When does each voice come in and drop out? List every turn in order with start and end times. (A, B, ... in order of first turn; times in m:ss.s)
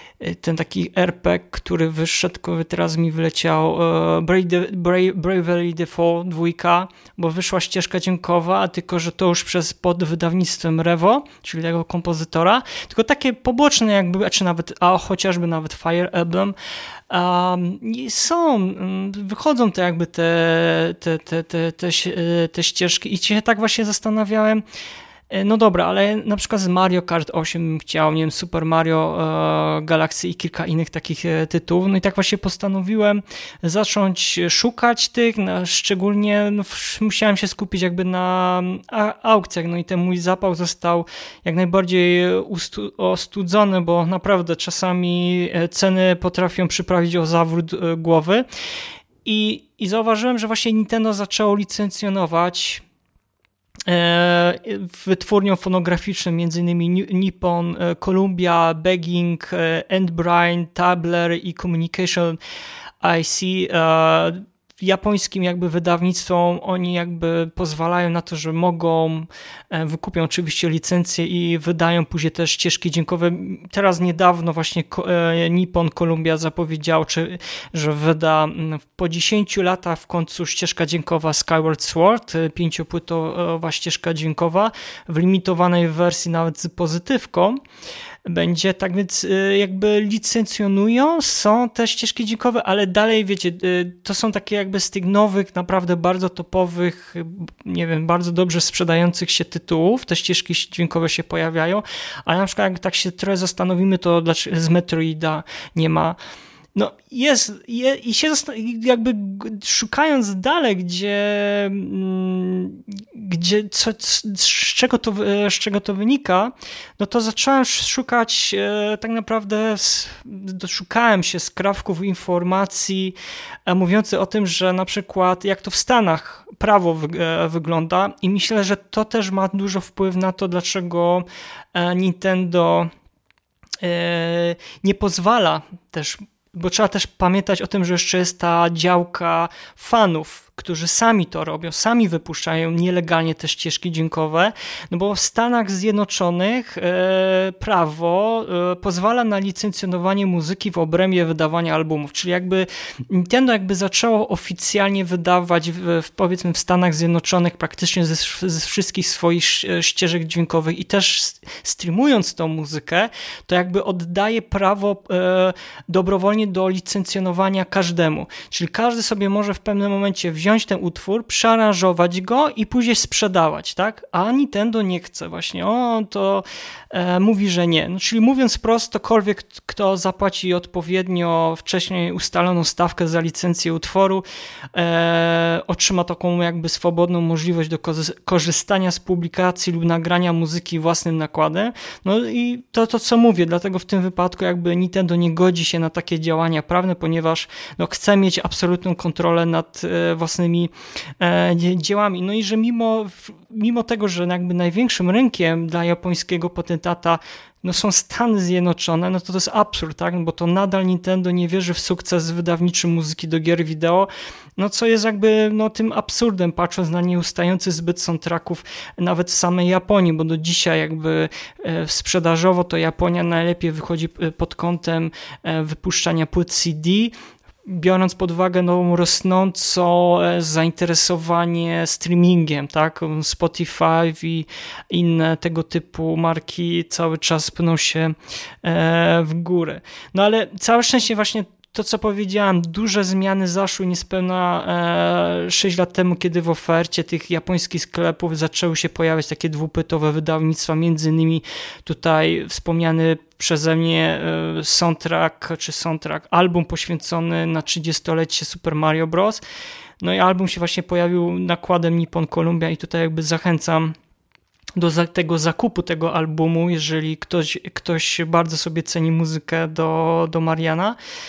0:00.2-0:16.5 A
0:17.1-0:24.6 A
0:25.3-0:48.4 A
0:49.2-0:52.8 A
0:53.9-1:02.4 A
1:03.0-1:27.6 A
1:28.3-1:46.2 A
1:46.7-2:03.2 A
2:03.7-2:12.9 A
2:13.8-3:47.1 A
3:47.6-4:19.4 A
4:20.0-4:23.9 A
4:24.8-4:31.0 A